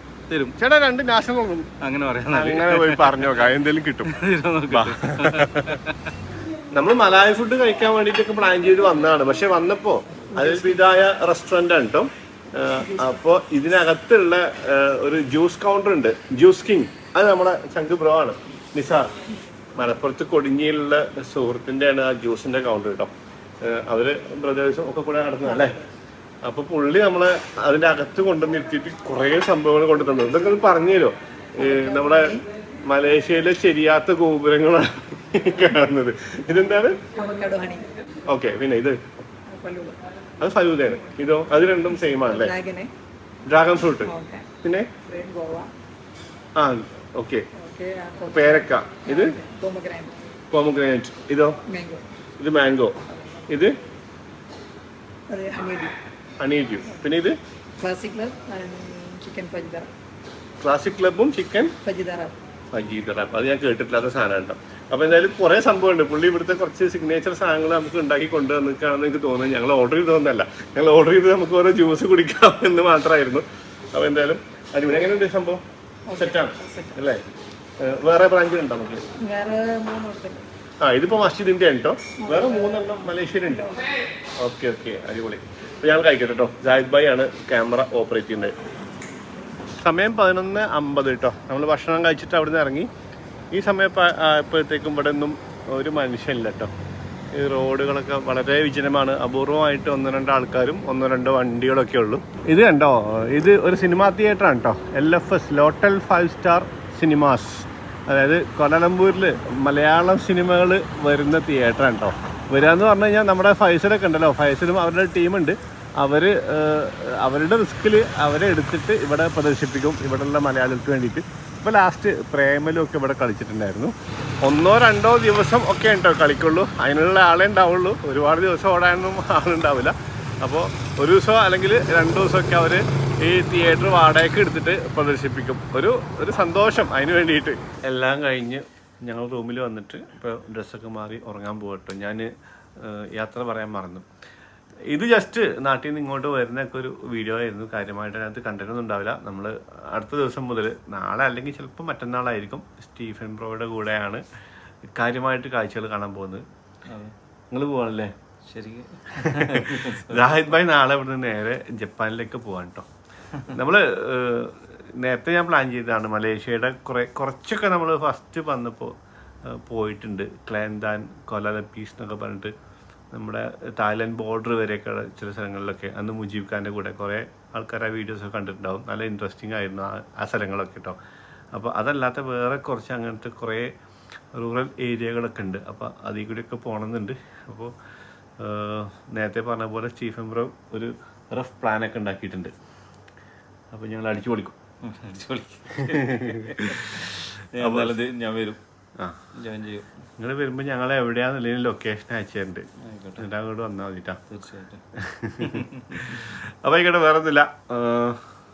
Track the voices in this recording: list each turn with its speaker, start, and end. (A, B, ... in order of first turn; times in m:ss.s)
0:00.3-0:00.6 A
0:00.6-0:01.7 B
0:01.8-0:03.4 A
0:02.3-0:04.1 B
0:04.1-0:06.1 A
0:04.7-0:05.7 B
0:06.7-0:19.1 B
0:10.4-0:10.8 C
0:19.8-0:25.8 B
0:26.4-0:37.0 B
0:31.6-0:32.4 C
0:37.2-0:37.9 C
0:38.3-0:39.1 B
0:39.5-0:40.0 C
0:40.4-0:42.5 B
0:42.3-0:42.9 C
0:43.5-0:44.1 B
0:44.0-0:44.5 C
0:45.1-0:45.7 C
0:46.6-0:47.4 B
0:47.6-0:50.2 C
0:48.3-0:49.4 B
0:50.5-0:51.6 B
0:51.7-0:52.0 C
0:52.4-0:53.0 B
0:53.5-0:53.7 B
0:55.3-0:55.9 C
0:56.4-0:57.4 B
0:57.8-0:59.9 C
1:00.6-1:01.7 B
1:01.8-1:02.4 C
1:02.7-1:15.6 B
1:16.1-1:17.0 C
1:16.1-1:17.2 B
1:17.8-1:19.0 B
1:19.2-1:20.4 C
1:20.8-1:23.8 B
1:22.2-1:22.8 C
1:23.4-1:23.7 C
1:24.4-1:28.5 B
1:29.8-1:32.9 B
1:33.5-1:36.7 B
1:37.3-2:03.9 B
2:04.4-2:24.1 B
2:24.9-2:34.2 B
2:35.0-2:36.4 B
2:36.9-2:37.1 A
2:37.5-2:38.1 B
2:38.4-2:40.5 A
2:39.2-2:42.9 B
2:43.5-2:48.9 B
2:49.5-2:52.5 B
2:53.1-3:01.0 B
3:01.5-3:03.7 B
3:04.3-3:07.7 B
3:08.4-3:12.5 B
3:13.7-3:14.6 B
3:14.8-3:18.6 A
3:15.8-3:17.1 B
3:17.6-3:18.0 B
3:19.4-3:19.9 A
3:20.2-3:22.6 B
3:22.8-3:23.2 A
3:23.2-3:24.2 B
3:24.3-3:24.8 A
3:25.0-3:28.2 B
3:25.4-3:26.2 A